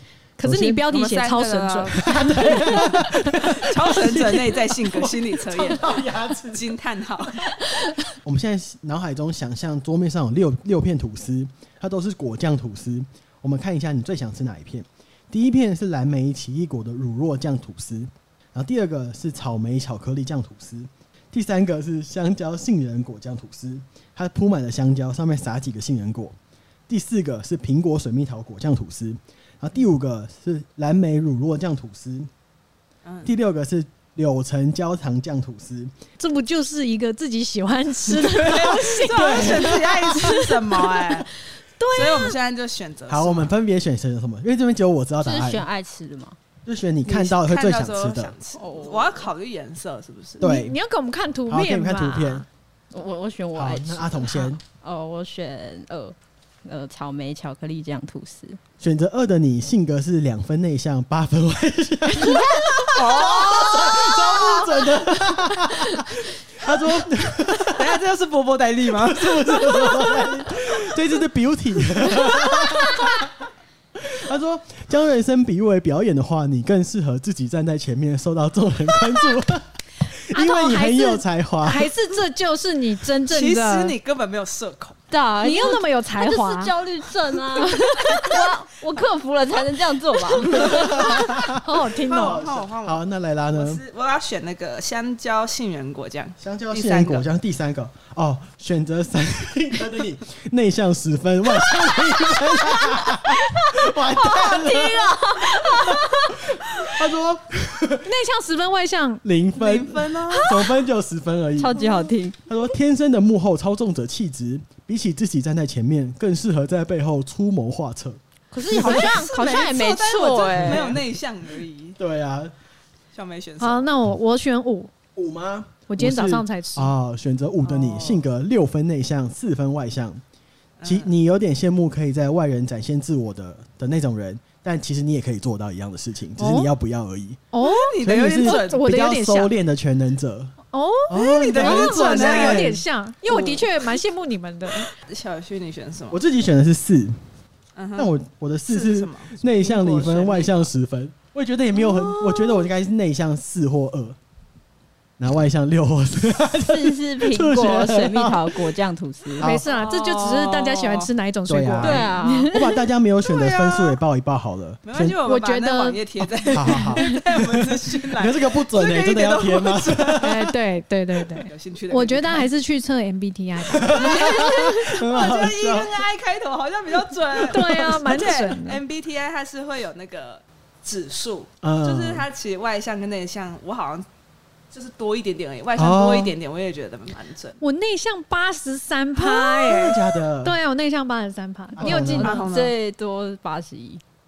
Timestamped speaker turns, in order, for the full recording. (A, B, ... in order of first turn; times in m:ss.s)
0:00.4-0:03.2 A
0:00.4-0:00.8 B
0:00.9-0:07.5 C
0:02.0-0:26.3 B
0:26.9-0:32.3 B
0:33.0-0:33.3 C
0:33.2-0:35.9 B
0:36.2-0:40.2 A
0:38.2-0:41.3 C
0:39.0-0:40.5 B
0:40.8-0:41.1 A
0:41.8-0:42.3 A
0:41.9-0:43.5 C
0:43.1-0:45.6 B
0:45.2-0:46.4 D
0:46.6-0:48.3 B
0:47.0-0:50.4 C
0:48.5-0:49.3 D
0:50.4-0:50.8 B
0:50.4-0:52.4 A
0:51.5-0:52.4 B
0:52.9-0:58.6 D
0:53.5-0:54.6 B
0:58.8-1:08.0 B
1:03.0-1:04.0 D
1:07.6-1:10.2 C
1:08.9-1:13.3 B
1:14.0-1:21.9 B
1:20.3-1:23.9 A
1:23.3-1:25.0 C
1:25.1-1:31.2 D
1:25.4-1:26.7 A
1:27.6-1:28.6 A
1:30.4-1:31.0 C
1:30.6-1:33.8 B
1:31.2-1:32.4 A
1:32.0-1:33.0 C
1:33.5-1:37.2 C
1:36.4-1:48.1 B
1:41.8-1:46.4 D
1:48.0-1:49.2 A
1:49.2-1:51.8 B
1:49.5-1:50.6 C
1:51.6-1:52.4 D
1:52.5-1:58.2 B
1:58.5-2:01.0 D
1:58.6-2:02.0 C
2:00.6-2:01.0 B
2:02.0-2:02.5 B
2:03.1-2:03.9 C
2:03.6-2:04.9 A
2:05.1-2:10.2 B
2:05.9-2:06.9 A
2:07.6-2:08.2 C
2:10.8-2:11.1 C
2:10.8-2:17.4 B
2:16.4-2:16.7 A
2:17.5-2:19.5 A
2:17.6-2:18.8 C
2:18.0-2:20.5 B
2:20.7-2:24.9 A
2:21.1-2:22.8 B
2:21.2-2:24.0 C
2:24.8-2:26.2 C
2:26.1-2:27.2 B
2:27.8-2:28.1 C
2:28.0-2:34.2 B
2:28.7-2:30.7 C
2:35.2-2:38.8 B
2:36.6-2:39.5 D
2:39.3-2:39.6 B
2:39.4-2:42.6 A
2:39.6-2:41.1 C
2:41.5-2:45.2 B
2:41.8-2:42.5 D
2:43.2-2:44.0 C
2:44.8-2:50.3 C
2:45.2-2:46.0 A
2:46.5-2:50.5 B
2:46.6-2:47.2 A
2:50.2-2:54.7 A
2:51.4-2:52.5 C
2:53.7-2:56.1 B
2:53.9-3:04.0 C
2:57.5-2:58.8 A
3:01.6-3:02.2 B
3:04.7-3:07.6 C
3:05.8-3:06.3 B
3:07.6-3:12.4 A
3:09.2-3:10.6 B
3:11.8-3:12.4 B
3:11.8-3:12.7 C
3:12.2-3:14.0 D